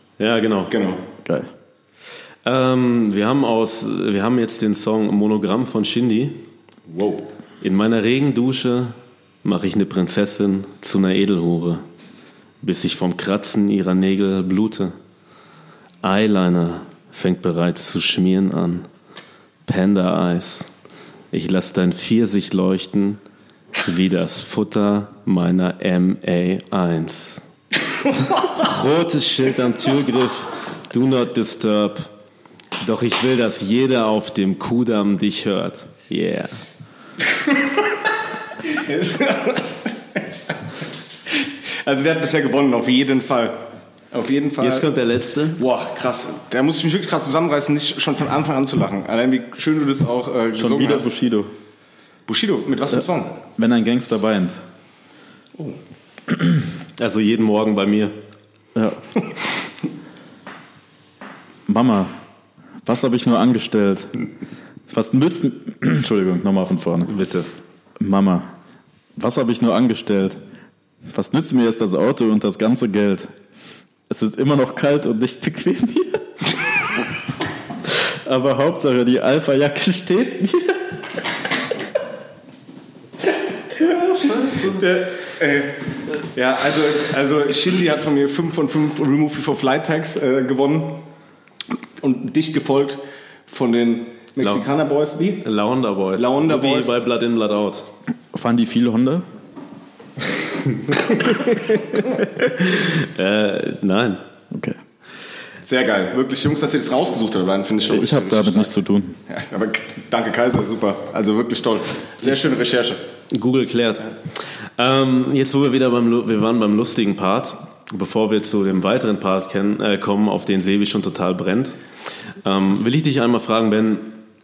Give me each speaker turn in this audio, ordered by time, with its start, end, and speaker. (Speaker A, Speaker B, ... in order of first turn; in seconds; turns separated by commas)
Speaker A: 0.2-0.8, Speaker B: 0.7-1.0, Speaker C: 1.2-1.5, Speaker A: 2.4-6.4, Speaker B: 6.9-7.3, Speaker A: 7.6-11.8, Speaker A: 12.6-14.9, Speaker A: 16.0-18.9, Speaker A: 19.6-20.7, Speaker A: 21.3-23.2, Speaker A: 23.8-27.4, Speaker A: 28.4-32.1, Speaker A: 32.8-36.6, Speaker B: 38.7-40.2, Speaker B: 41.8-44.9, Speaker A: 44.6-45.6, Speaker B: 45.5-51.1, Speaker C: 50.5-51.5, Speaker B: 52.3-53.3, Speaker C: 53.6-54.5, Speaker A: 57.0-58.1, Speaker C: 58.7-59.0, Speaker C: 61.7-62.1, Speaker C: 62.8-64.1, Speaker C: 64.9-67.1, Speaker A: 67.1-67.5, Speaker C: 68.0-68.5, Speaker C: 69.2-70.4, Speaker C: 71.1-73.3, Speaker C: 74.1-76.2, Speaker C: 78.2-80.8, Speaker A: 84.1-84.8, Speaker B: 84.7-91.0, Speaker B: 92.0-95.4, Speaker A: 94.4-94.7, Speaker A: 95.4-97.8, Speaker B: 96.2-96.9, Speaker C: 98.3-99.2, Speaker A: 102.4-104.2, Speaker C: 104.5-104.8, Speaker B: 105.6-108.7, Speaker C: 107.8-109.2, Speaker B: 109.3-113.0, Speaker A: 112.2-112.5, Speaker A: 113.3-121.8, Speaker A: 122.4-124.2